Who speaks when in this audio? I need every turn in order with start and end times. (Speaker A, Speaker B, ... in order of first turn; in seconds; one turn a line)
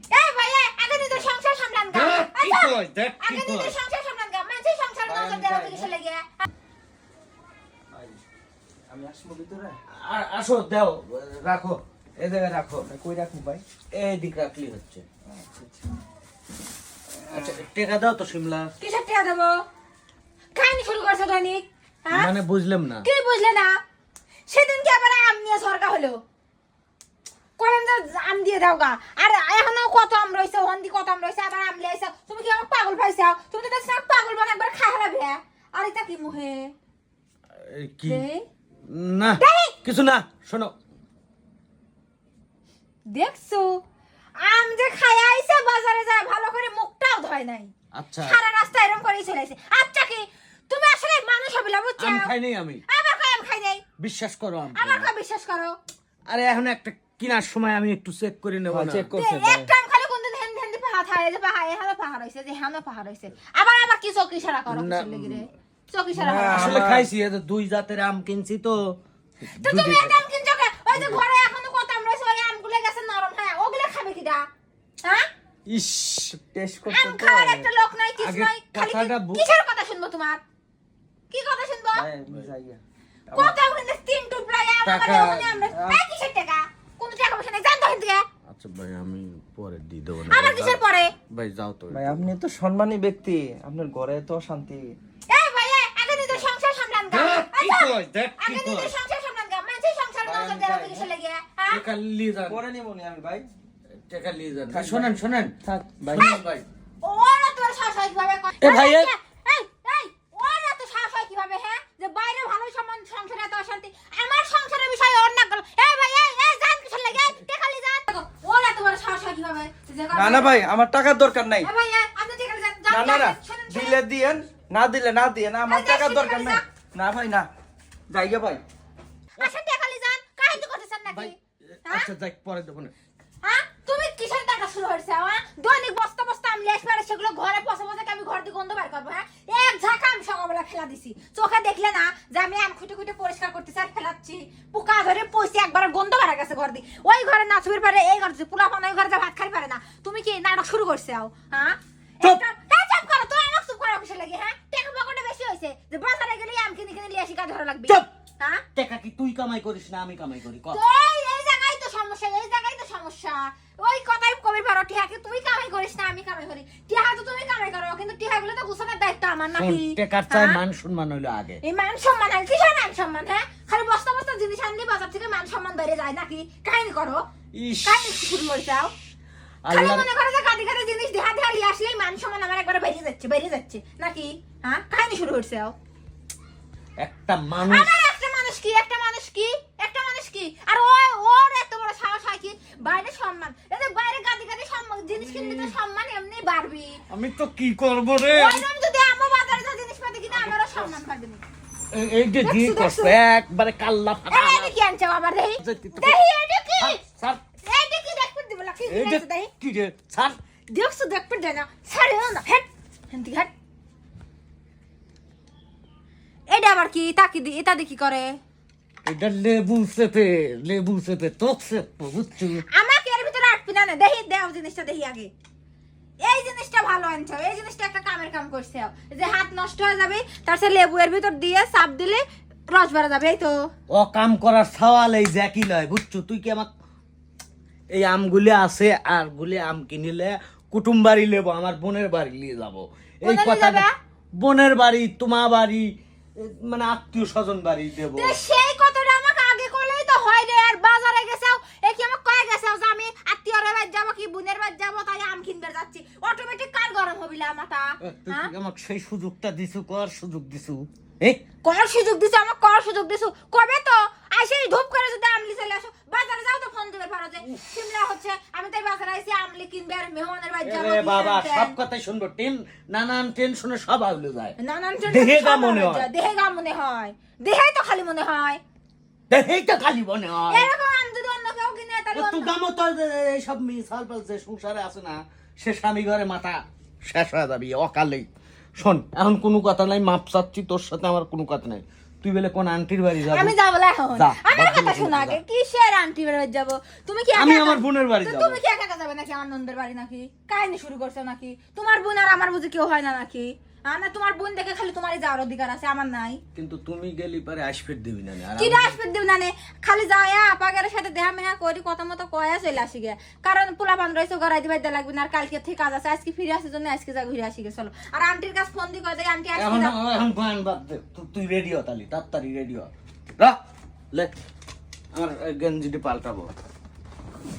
Speaker A: 0.1-6.5
Speaker B: 1.0-1.2
Speaker C: 1.9-3.8
Speaker B: 5.0-5.9
Speaker B: 7.9-8.2
Speaker B: 8.9-9.8
Speaker C: 9.9-12.9
Speaker B: 12.9-13.6
Speaker C: 13.9-15.0
Speaker B: 15.3-15.8
Speaker C: 17.3-18.7
Speaker A: 18.8-19.6
Speaker A: 20.5-22.3
Speaker C: 22.1-23.1
Speaker A: 23.0-23.8
Speaker A: 24.5-26.2
Speaker A: 27.6-36.7
Speaker C: 37.5-38.3
Speaker A: 38.0-38.5
Speaker C: 38.9-40.7
Speaker A: 39.4-39.8
Speaker A: 43.1-43.8
Speaker A: 44.4-47.7
Speaker C: 47.9-48.4
Speaker A: 48.2-52.3
Speaker C: 52.0-52.8
Speaker A: 52.9-53.8
Speaker C: 54.0-55.1
Speaker A: 54.7-55.8
Speaker C: 56.3-59.1
Speaker B: 58.7-59.7
Speaker A: 59.2-66.8
Speaker C: 64.7-65.5
Speaker B: 66.1-67.1
Speaker C: 66.5-70.2
Speaker A: 69.6-74.5
Speaker C: 70.9-71.2
Speaker C: 75.7-76.3
Speaker B: 76.3-77.7
Speaker A: 76.9-80.4
Speaker C: 78.2-79.5
Speaker A: 81.3-82.1
Speaker B: 81.9-83.6
Speaker A: 83.3-88.3
Speaker C: 84.8-85.7
Speaker B: 85.7-86.0
Speaker C: 88.5-92.3
Speaker A: 90.3-91.1
Speaker B: 91.9-94.8
Speaker A: 95.3-101.8
Speaker C: 97.1-98.9
Speaker B: 100.2-101.1
Speaker C: 101.7-102.6
Speaker B: 102.5-103.5
Speaker C: 104.1-106.7
Speaker B: 104.7-106.3
Speaker A: 107.0-120.5
Speaker C: 108.6-109.1
Speaker B: 120.1-121.7
Speaker A: 121.6-124.0
Speaker B: 122.9-127.5
Speaker A: 125.7-126.6
Speaker B: 128.1-128.6
Speaker A: 129.4-132.1
Speaker C: 131.1-132.9
Speaker A: 133.4-158.6
Speaker C: 158.8-160.8
Speaker A: 160.7-170.6
Speaker C: 169.6-171.6
Speaker A: 171.6-177.2
Speaker C: 177.5-178.3
Speaker A: 177.8-178.9
Speaker C: 179.6-180.1
Speaker A: 179.7-185.8
Speaker C: 187.0-187.9
Speaker A: 187.6-197.0
Speaker C: 195.1-195.8
Speaker C: 197.1-198.7
Speaker A: 198.3-201.4
Speaker C: 200.3-201.0
Speaker C: 201.9-204.7
Speaker A: 202.4-203.2
Speaker A: 204.3-207.0
Speaker C: 205.6-206.2
Speaker C: 206.8-207.4
Speaker A: 207.6-209.5
Speaker C: 208.9-210.4
Speaker A: 210.7-213.5
Speaker A: 216.5-218.4
Speaker C: 219.0-222.6
Speaker A: 222.7-225.3
Speaker A: 226.2-233.7
Speaker C: 233.9-236.7
Speaker C: 237.9-243.9
Speaker A: 243.2-243.9
Speaker C: 244.4-248.4
Speaker A: 248.1-258.5
Speaker C: 258.0-261.4
Speaker A: 261.6-271.8
Speaker C: 270.6-276.1
Speaker A: 274.6-278.6
Speaker C: 279.3-280.7
Speaker A: 280.5-282.6
Speaker C: 282.1-288.3
Speaker C: 288.8-293.6
Speaker A: 293.3-306.4
Speaker C: 294.1-295.4
Speaker C: 297.4-298.6
Speaker C: 306.6-308.9
Speaker A: 308.6-319.9
Speaker C: 319.6-323.6
Speaker C: 325.1-326.5